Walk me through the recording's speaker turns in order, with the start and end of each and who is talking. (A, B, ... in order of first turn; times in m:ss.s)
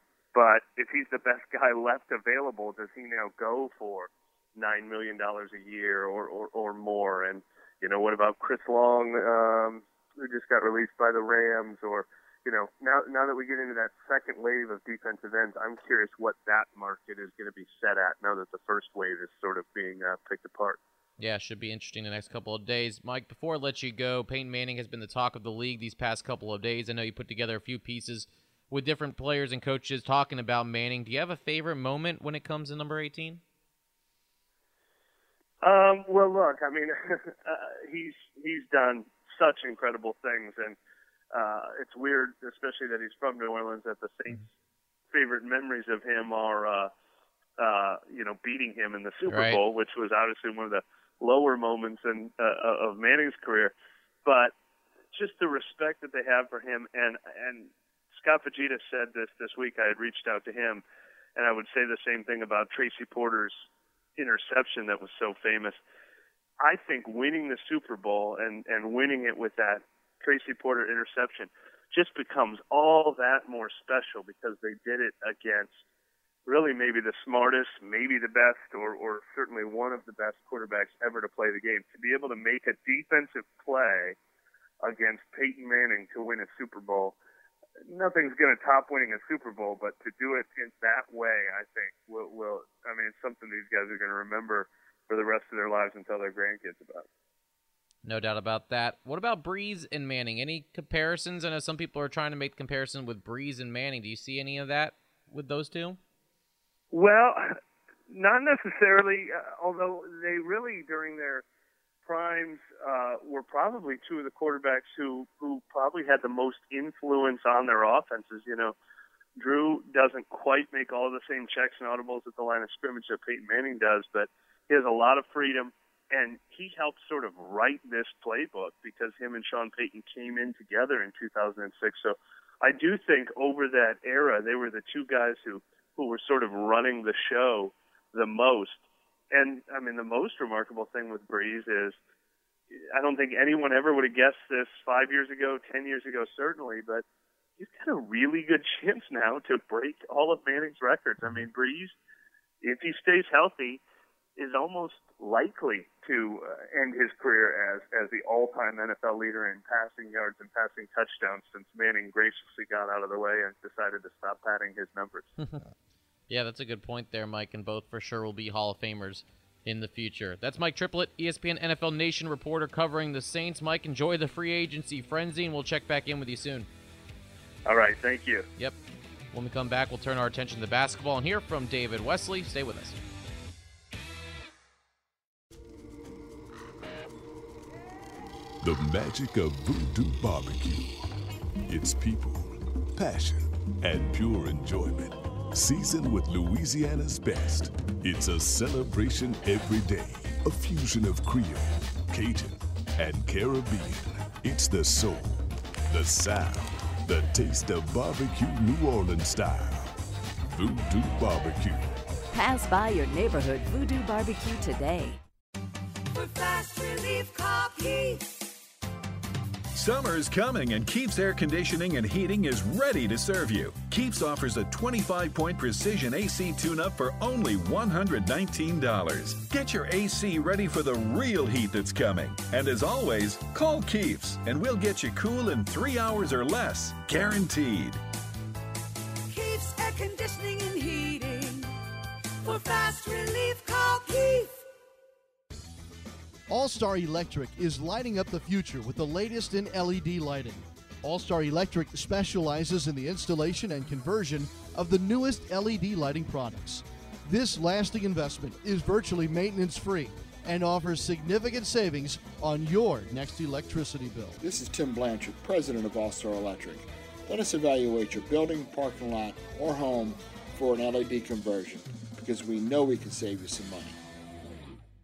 0:00.3-0:20.8 A
0:21.2-0:33.4 B
0:35.6-0:40.8 A
0:41.3-0:44.5 A
0:45.1-0:46.9 A
0:47.6-0:54.5 A
0:49.3-0:49.6 B
0:55.1-1:00.8 A
1:01.4-1:05.8 A
1:06.6-1:15.8 A
1:16.4-1:24.2 A
1:24.8-1:27.2 A
1:27.8-1:37.1 A
1:38.0-1:46.0 B
1:46.9-1:47.6 A
1:48.1-1:51.4 A
1:52.0-1:58.7 A
1:59.4-2:22.0 A
2:22.9-2:27.0 A
2:27.6-2:31.9 A
2:32.6-2:33.8 A
2:34.4-2:45.3 A
2:45.4-2:45.6 B
2:46.3-2:56.7 B
2:57.6-2:58.5 A
2:59.3-3:03.0 B
3:08.6-3:11.0 C
3:11.7-3:29.9 C
3:30.5-3:31.9 C
3:32.3-3:35.2 D
3:36.1-3:38.3 E
3:39.7-3:58.0 F
3:59.3-4:01.7 E
4:02.4-4:04.6 E
4:06.5-4:24.4 G
4:24.4-4:34.0 H